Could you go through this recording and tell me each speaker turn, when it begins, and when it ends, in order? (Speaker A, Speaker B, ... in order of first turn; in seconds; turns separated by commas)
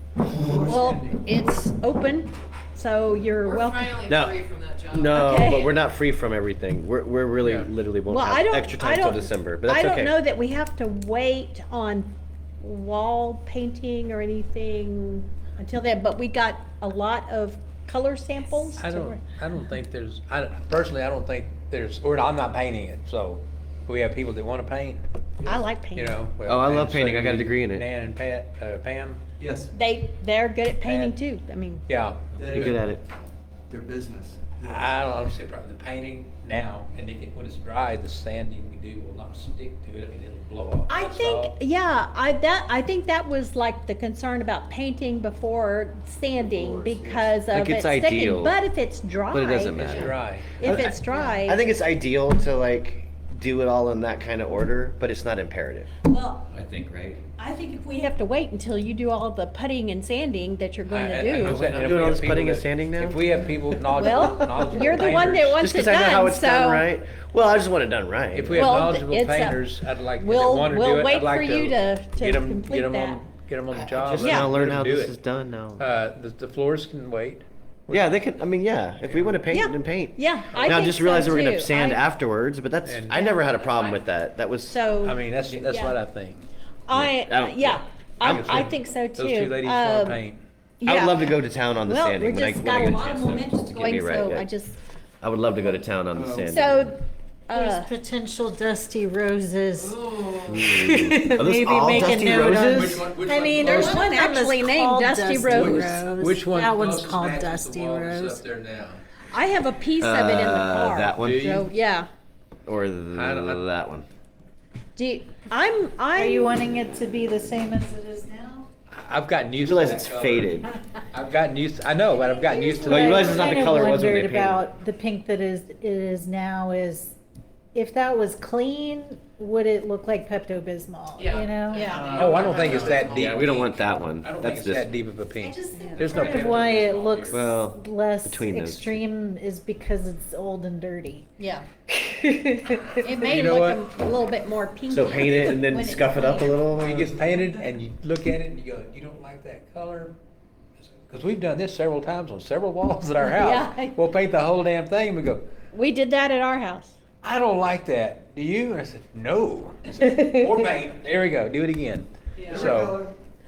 Speaker A: 0.5-1.0, Speaker B: 0.5-1.1, Speaker C: 0.6-3.9, Speaker D: 3.4-5.7, Speaker E: 4.1-4.4, Speaker E: 4.9-10.1, Speaker C: 5.1-5.7, Speaker B: 7.4-7.7, Speaker C: 8.1-19.2, Speaker B: 18.7-25.0, Speaker C: 25.4-26.2, Speaker B: 25.9-29.2, Speaker E: 26.4-27.9, Speaker A: 29.4-29.7, Speaker C: 29.7-31.8, Speaker B: 30.8-31.1, Speaker B: 31.9-32.8, Speaker A: 32.4-32.7, Speaker E: 32.5-33.0, Speaker A: 33.7-34.9, Speaker B: 34.6-41.5, Speaker C: 40.9-50.1, Speaker E: 46.4-48.6, Speaker E: 49.3-55.9, Speaker B: 49.8-50.6, Speaker D: 49.8-50.1, Speaker C: 50.6-51.6, Speaker C: 56.1-56.5, Speaker E: 56.5-57.2, Speaker C: 57.4-61.6, Speaker B: 60.9-65.7, Speaker E: 61.4-63.2, Speaker C: 63.9-66.8, Speaker E: 64.6-64.9, Speaker E: 65.5-68.7, Speaker B: 68.3-75.1, Speaker C: 68.5-69.7, Speaker C: 70.2-73.3, Speaker E: 73.8-75.8, Speaker C: 74.2-74.5, Speaker B: 75.8-78.1, Speaker E: 77.9-84.8, Speaker B: 79.0-79.4, Speaker C: 79.5-82.0, Speaker B: 80.5-80.8, Speaker B: 82.8-83.2, Speaker C: 83.1-83.5, Speaker D: 83.5-84.0, Speaker C: 84.7-85.9, Speaker B: 85.0-86.5, Speaker C: 86.9-90.2, Speaker E: 86.9-88.7, Speaker B: 88.2-90.4, Speaker C: 90.8-94.8, Speaker E: 90.8-94.5, Speaker E: 95.2-96.9, Speaker A: 96.2-96.5, Speaker C: 96.5-97.9, Speaker F: 97.5-100.0, Speaker D: 99.8-100.7, Speaker E: 100.5-103.1, Speaker F: 100.6-108.4, Speaker B: 102.6-104.0, Speaker C: 103.5-105.9, Speaker B: 105.4-109.0, Speaker C: 109.3-112.1, Speaker E: 110.0-111.5, Speaker B: 111.2-111.7, Speaker E: 112.7-114.0, Speaker B: 113.1-113.6, Speaker C: 115.0-116.6, Speaker F: 116.1-118.7, Speaker B: 118.9-123.7, Speaker E: 119.6-120.7, Speaker F: 122.3-127.2, Speaker E: 122.8-124.6, Speaker F: 127.7-131.9, Speaker D: 131.2-133.7, Speaker C: 131.7-132.3, Speaker B: 131.9-137.5, Speaker E: 132.8-134.9, Speaker C: 135.4-136.3, Speaker F: 136.0-141.4, Speaker E: 137.3-138.9, Speaker C: 141.4-146.6, Speaker B: 143.2-143.8, Speaker E: 144.9-147.2, Speaker B: 146.7-150.2, Speaker B: 150.8-155.4, Speaker C: 153.2-154.0, Speaker C: 155.7-156.9, Speaker B: 157.2-163.0, Speaker F: 162.4-163.1, Speaker A: 162.5-163.1